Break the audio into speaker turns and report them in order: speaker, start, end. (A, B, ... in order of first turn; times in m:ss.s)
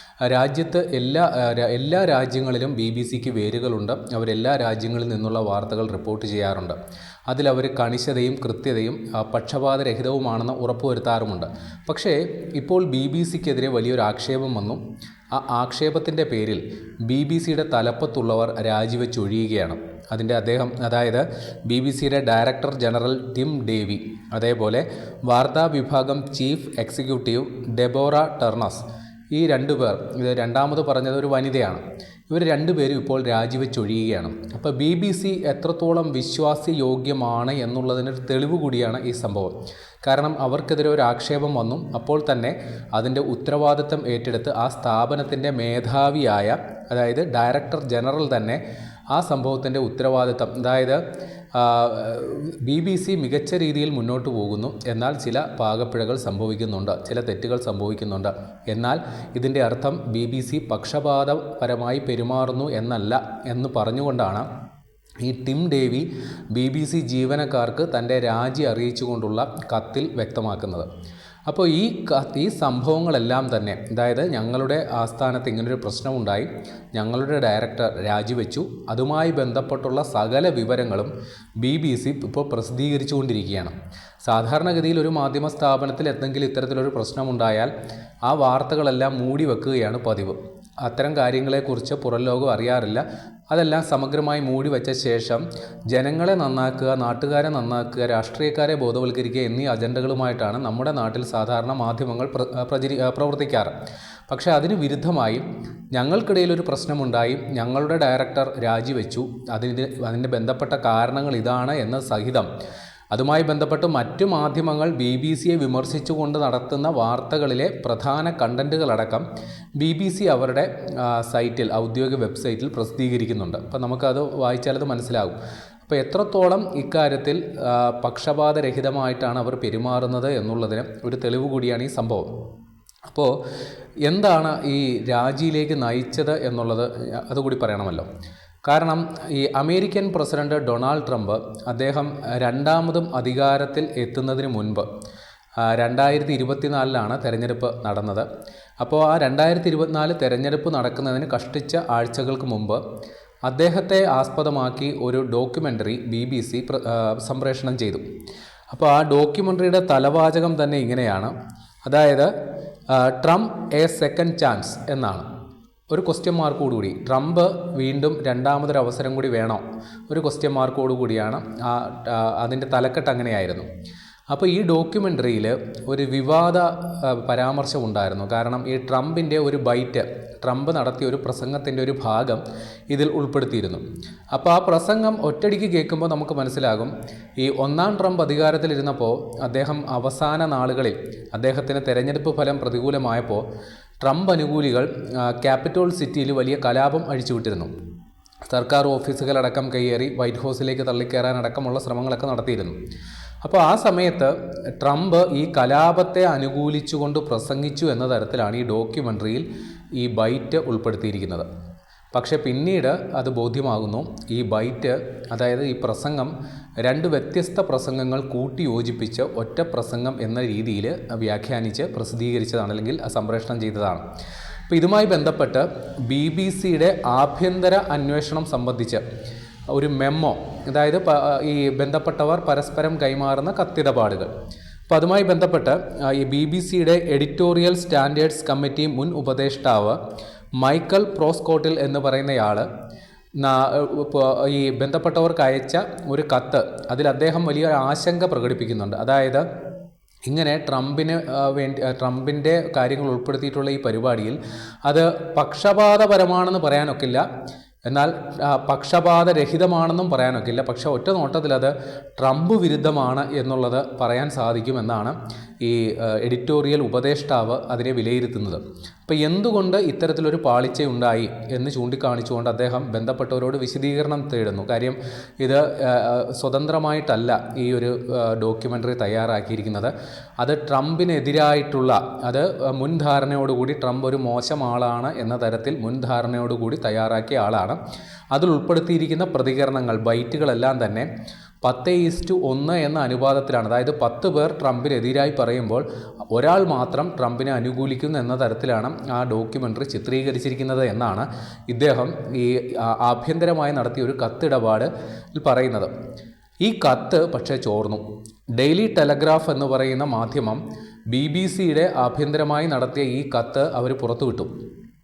0:00.2-0:06.8 A
0:07.3-0:14.8 A
0:15.3-0:48.6 A
0:49.1-0:51.0 A
0:51.5-1:04.5 A
1:05.2-1:10.9 A
1:11.5-1:27.7 A
1:28.2-1:43.7 A
1:44.3-1:52.5 A
1:53.1-1:59.2 A
1:59.8-2:12.3 A
2:13.1-2:13.4 A
2:14.0-2:18.1 A
2:18.6-2:24.9 A
2:25.6-2:28.3 A
2:28.8-2:32.8 A
2:33.4-2:38.0 A
2:38.7-2:41.3 A
2:41.8-2:42.3 A
2:42.9-2:45.2 A
2:45.9-2:53.7 A
2:54.3-3:03.8 A
3:04.3-3:13.4 A
3:14.0-3:17.7 A
3:18.5-3:22.7 A
3:23.4-3:29.4 A
3:30.0-3:31.4 A
3:32.1-3:44.0 A
3:44.7-3:49.0 A
3:49.7-3:54.3 A
3:54.9-4:00.0 A
4:00.6-4:02.7 A
4:03.4-4:09.4 A
4:10.2-4:17.2 A
4:17.9-4:47.8 A
4:48.3-4:51.1 A
4:51.6-5:05.9 A
5:06.6-5:08.0 A
5:08.5-5:10.6 A
5:11.1-5:14.5 A